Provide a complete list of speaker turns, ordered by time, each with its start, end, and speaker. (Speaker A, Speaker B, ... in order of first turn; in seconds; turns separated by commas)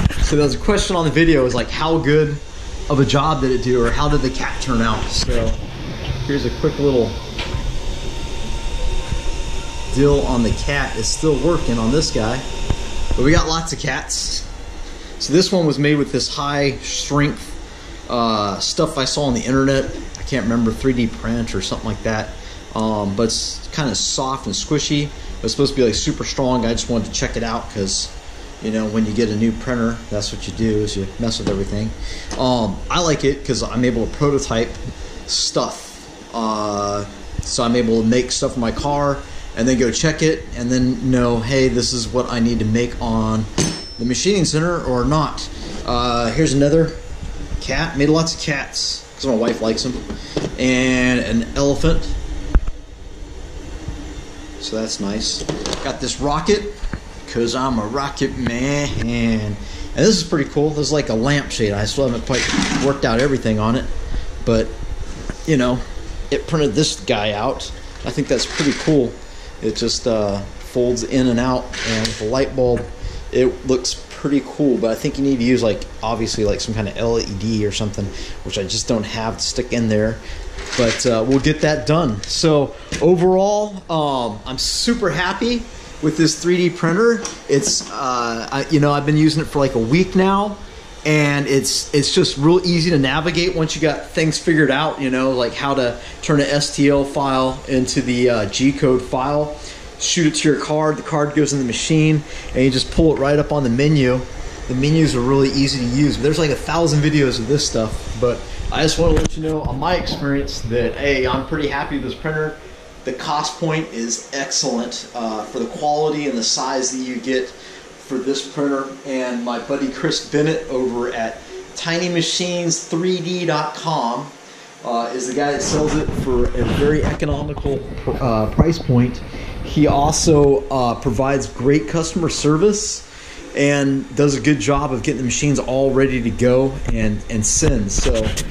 Speaker A: 0.2-5.6, Speaker A: 6.2-7.2, Speaker A: 9.9-12.4, Speaker A: 13.2-14.5, Speaker A: 15.2-47.0, Speaker A: 47.6-50.0, Speaker A: 50.6-52.1, Speaker A: 54.6-63.9, Speaker A: 64.4-64.7, Speaker A: 65.5-80.2, Speaker A: 80.8-124.3, Speaker A: 124.8-138.3